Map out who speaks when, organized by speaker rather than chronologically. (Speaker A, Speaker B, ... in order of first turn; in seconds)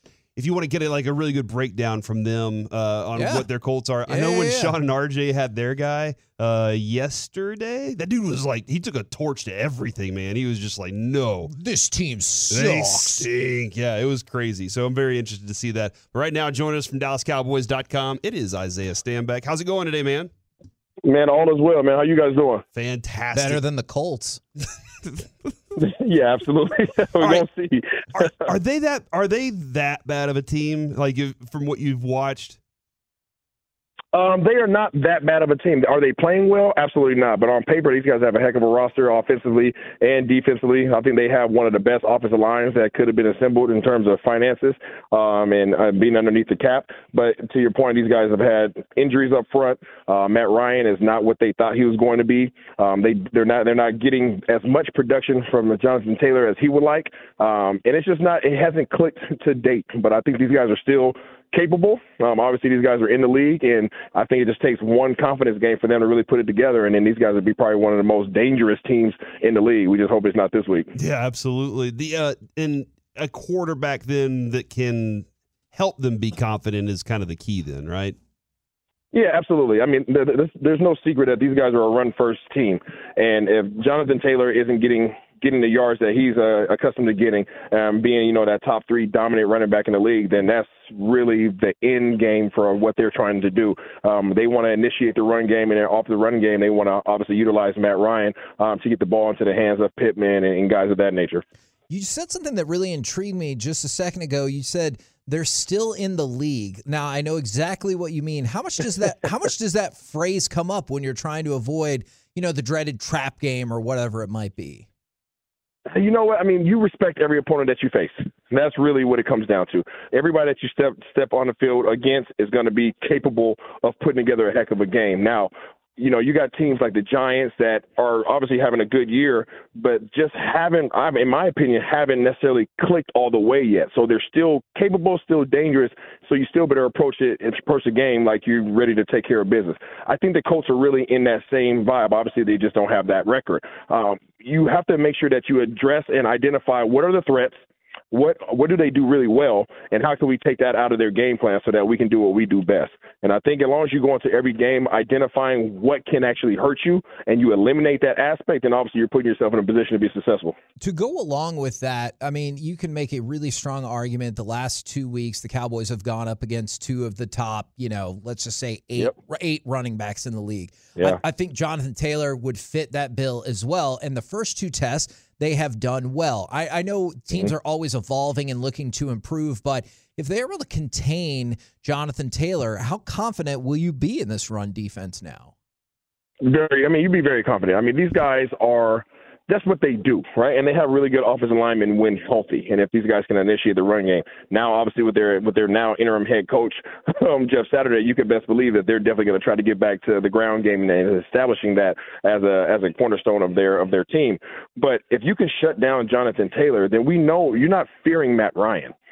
Speaker A: 0.3-11.5, 12.5-20.3, 22.7-23.6, 28.4-32.6, 70.9-78.2
Speaker B: 3.1-3.5, 4.0-4.8, 11.5-13.3, 23.3-24.4, 101.9-114.8, 160.8-185.5
Speaker C: 21.0-22.6, 25.8-28.5, 34.1-70.9, 79.1-101.4, 115.9-147.6, 148.1-160.6, 186.4-208.9